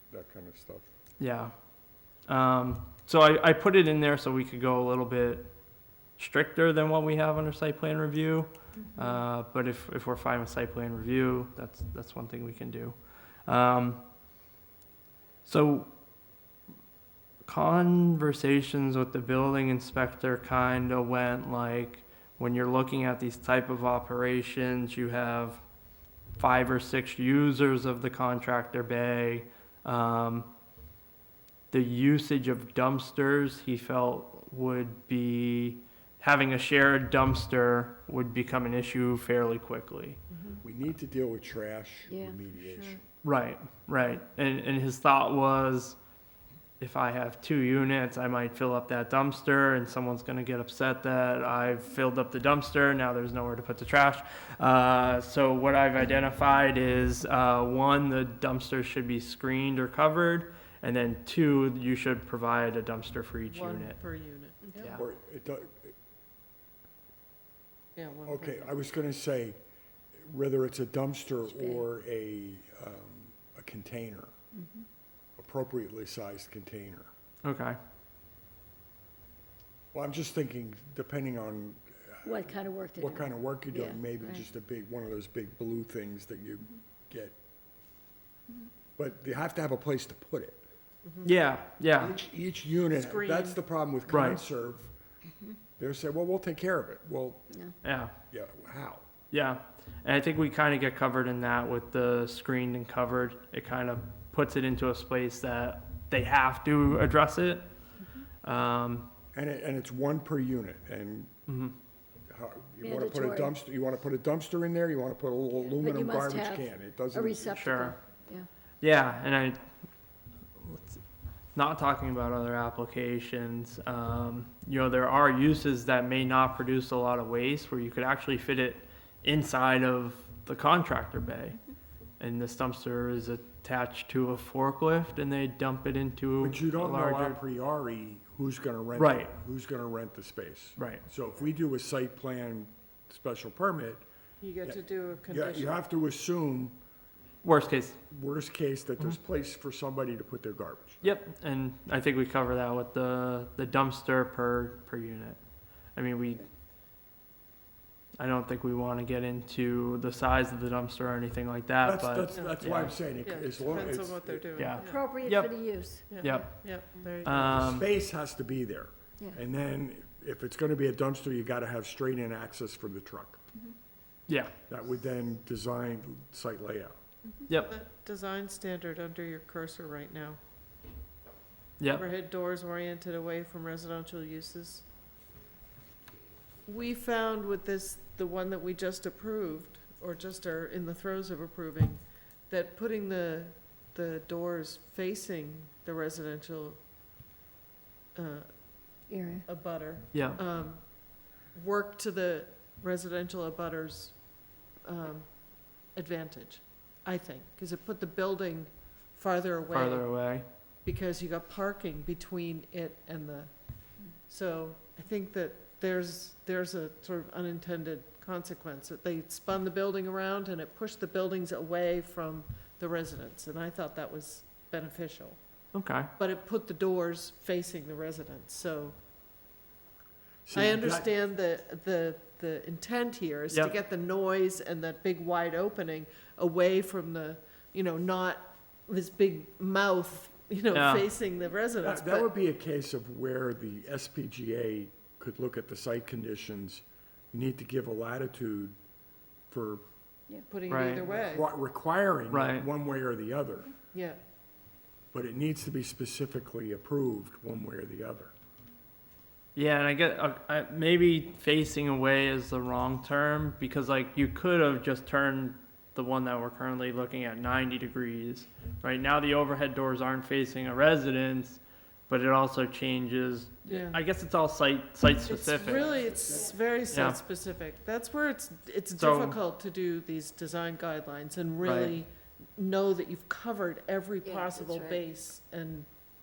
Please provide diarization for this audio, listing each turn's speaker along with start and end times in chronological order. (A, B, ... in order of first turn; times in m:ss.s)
0:00.1-0:00.8 A
0:01.2-0:01.5 B
0:02.2-0:05.5 B
0:06.2-0:14.0 B
0:08.8-0:09.2 C
0:15.4-0:15.9 B
0:17.4-0:25.6 B
0:26.4-0:30.5 B
0:31.7-0:40.2 B
0:40.3-0:40.6 C
0:40.6-0:43.0 A
0:42.1-0:42.6 D
0:43.2-0:46.0 B
0:46.8-1:04.0 B
1:03.5-1:05.0 C
1:04.8-1:05.0 B
1:05.0-1:05.9 A
1:08.0-1:08.7 C
1:08.2-1:09.6 A
1:10.2-1:14.3 A
1:11.5-1:11.8 D
1:14.5-1:14.8 D
1:15.4-1:17.1 A
1:17.4-1:17.8 B
1:19.9-1:27.4 A
1:22.2-1:24.4 D
1:29.0-1:30.6 A
1:31.0-1:31.3 C
1:31.2-1:32.2 B
1:32.0-1:34.9 A
1:32.9-1:33.6 C
1:34.1-1:34.4 B
1:35.8-1:37.4 A
1:37.8-1:38.1 B
1:38.3-1:39.0 A
1:39.3-1:47.6 B
1:48.4-1:49.1 B
1:49.3-1:51.3 A
1:51.5-1:51.7 B
1:52.3-1:57.6 A
1:52.8-1:53.5 D
1:55.6-1:58.5 D
1:57.4-1:58.0 B
1:58.8-1:59.6 B
2:00.6-2:01.0 B
2:01.5-2:11.6 B
2:12.2-2:17.4 B
2:16.4-2:24.0 A
2:19.0-2:19.3 B
2:20.8-2:21.0 B
2:24.4-2:25.7 C
2:24.6-2:26.8 A
2:27.4-2:28.0 B
2:28.1-2:31.0 A
2:31.0-2:35.4 B
2:35.9-2:36.5 B
2:38.2-2:43.0 B
2:41.8-2:44.5 A
2:42.3-2:45.0 C
2:44.6-2:45.5 B
2:44.8-2:46.4 D
2:46.1-2:47.8 C
2:46.2-2:46.6 B
2:47.2-2:47.9 B
2:47.4-2:53.4 A
2:54.3-2:54.5 B
2:54.7-2:57.0 A
2:57.5-3:00.4 C
3:01.8-3:02.1 B
3:01.9-3:04.8 C
3:06.6-3:16.8 C
3:18.1-3:18.6 C
3:19.1-3:19.4 D
3:19.4-3:21.0 C
3:20.1-3:20.4 B
3:21.5-3:24.2 C
3:24.8-3:30.3 C
3:29.7-3:30.4 B
3:30.8-3:45.4 C
3:45.7-3:46.1 B
3:46.2-3:49.0 C
3:50.4-3:51.1 A
3:50.5-4:02.3 C
4:00.7-4:01.1 B
4:01.8-4:08.8 A
4:09.5-4:09.8 A
4:10.5-4:11.5 C
4:10.7-4:11.1 B
4:11.0-4:13.7 A
4:12.3-4:12.7 B
4:13.9-4:14.2 C
4:15.1-4:18.3 A
4:19.5-4:36.0 B
4:33.7-4:34.0 C
4:35.2-4:45.9 C
4:35.7-4:36.6 D
4:36.9-4:37.2 B
4:39.0-4:39.4 B
4:41.6-4:42.0 B
4:44.2-4:45.0 D